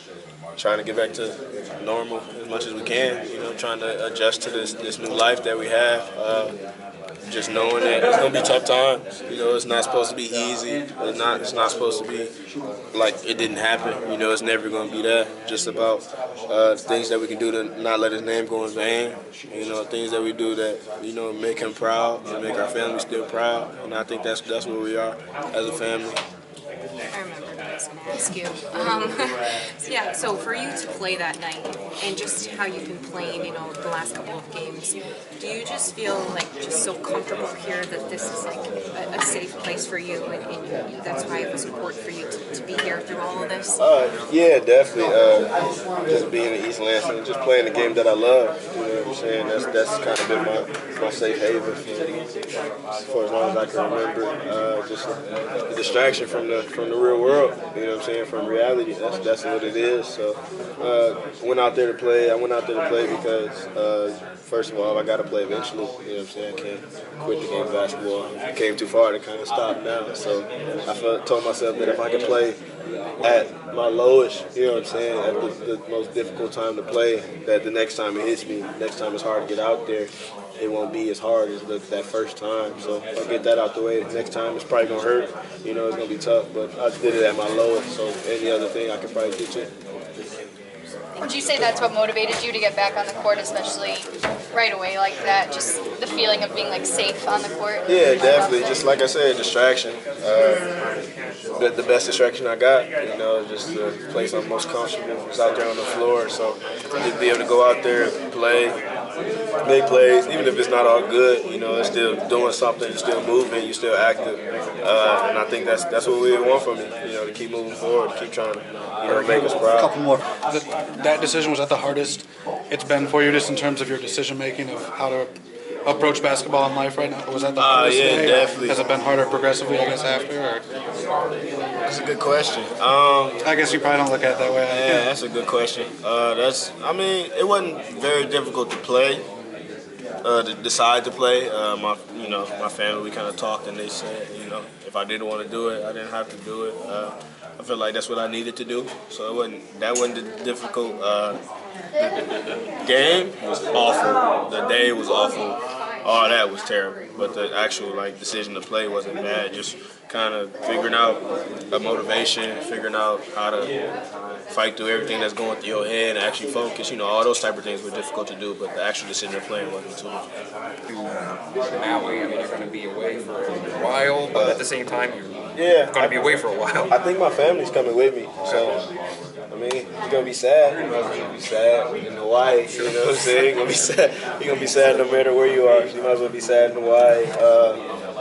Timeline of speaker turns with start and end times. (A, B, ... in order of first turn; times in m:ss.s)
0:00.6-0:06.5 A
0:07.3-0:12.3 A
0:12.9-0:26.2 A
0:27.1-0:43.8 B
0:43.8-0:45.5 A
0:46.0-0:52.2 A
0:53.1-0:55.2 A
0:55.7-1:12.6 A
1:13.2-1:29.7 A
1:31.2-1:38.9 C
1:37.8-1:40.7 A
1:41.6-1:48.8 A
1:49.6-2:00.0 A
1:59.1-2:05.3 D
2:05.8-2:10.6 D
2:07.6-2:08.8 A
2:11.8-2:13.4 A
2:13.4-2:15.1 D
2:14.4-2:19.2 A
2:20.2-2:31.4 A
2:32.8-2:43.7 A
2:44.5-2:50.2 A
2:50.9-2:51.1 E
2:51.7-2:55.3 E
2:54.3-2:54.6 A
2:55.5-2:58.8 A
2:55.9-2:56.9 E
2:59.5-3:07.8 A
3:02.7-3:03.4 E